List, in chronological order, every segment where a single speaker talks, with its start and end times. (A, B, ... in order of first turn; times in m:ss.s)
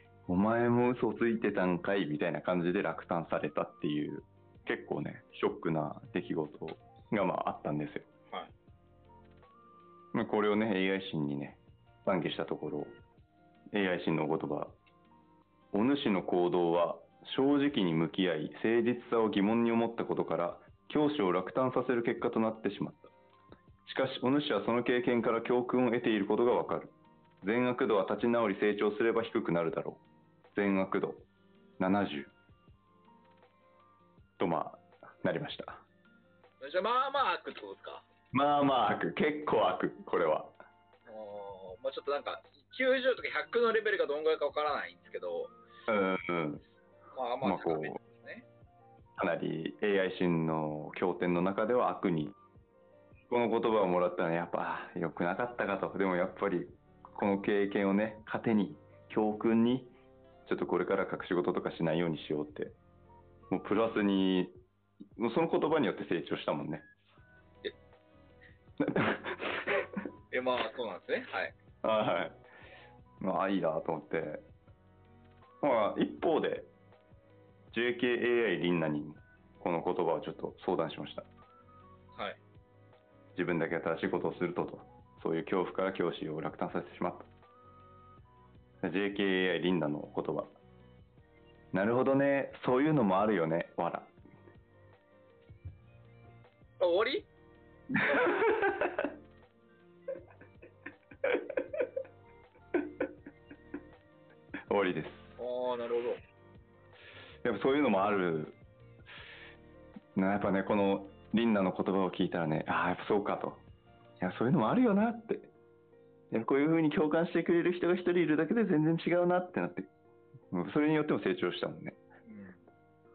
0:00.3-0:08.1 A
0:10.1-0:13.0 A
0:13.7-0:14.7 A
0:15.7-0:23.1 A
0:23.9-0:31.2 A
0:31.8-0:32.3 A
0:34.4-0:35.8 A
0:36.6-0:38.0 B
0:38.3-0:40.6 A
0:41.1-0:45.6 B
0:45.9-0:46.6 A
0:47.1-0:48.5 B
0:47.4-0:48.0 A
0:49.2-0:52.4 A
0:53.3-0:59.9 A
1:00.5-1:02.8 A
1:03.5-1:04.5 A
1:05.2-1:06.9 A
1:08.8-1:09.6 A
1:10.3-1:11.6 B
1:11.8-1:12.4 A
1:13.2-1:14.5 A
1:15.6-1:16.7 A
1:17.7-1:21.3 A
1:22.1-1:22.4 B
1:23.4-1:27.3 A
1:28.8-1:30.5 A
1:31.7-1:34.1 A
1:36.8-1:37.3 B
1:38.0-1:39.1 A
1:38.0-1:38.4 B
1:44.7-1:45.4 A
1:45.4-1:46.2 B
1:47.4-1:48.6 A
1:50.2-1:53.6 A
1:54.2-1:55.5 A
1:56.3-1:59.9 A
2:00.5-2:02.0 A
2:02.3-2:02.6 B